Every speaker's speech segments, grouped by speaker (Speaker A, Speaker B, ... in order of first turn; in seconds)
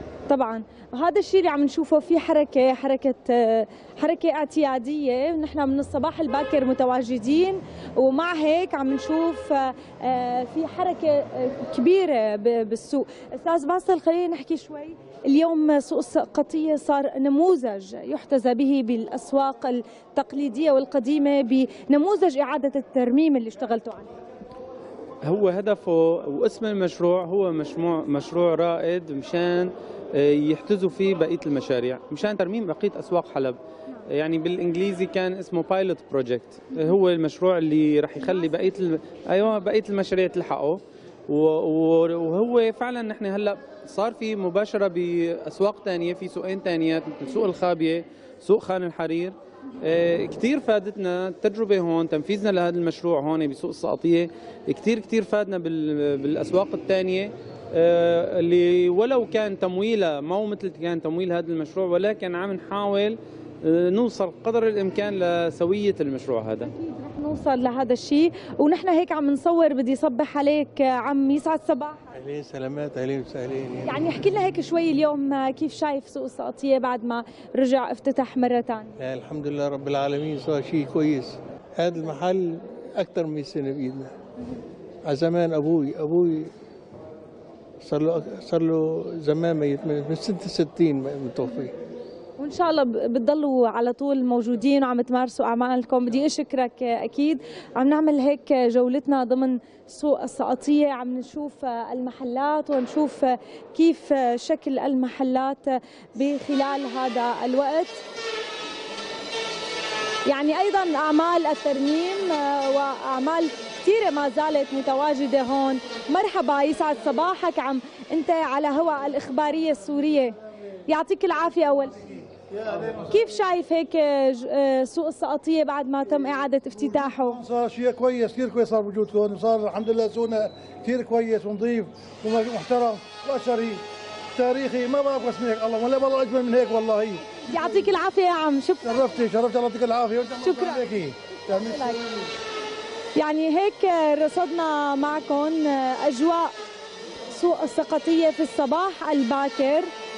Speaker A: 0.3-24.1, 66.6-72.0, 73.8-79.0, 92.4-108.0, 110.2-122.1, 122.8-127.4, 137.4-139.2, 140.4-140.9, 141.5-142.0, 143.2-146.5, 147.3-149.9
Speaker B: 25.2-66.7
Speaker C: 72.1-74.0, 79.0-84.1, 85.0-86.5, 87.8-91.7
Speaker D: 122.7-123.1, 126.7-133.8, 134.3-137.9, 138.8-142.3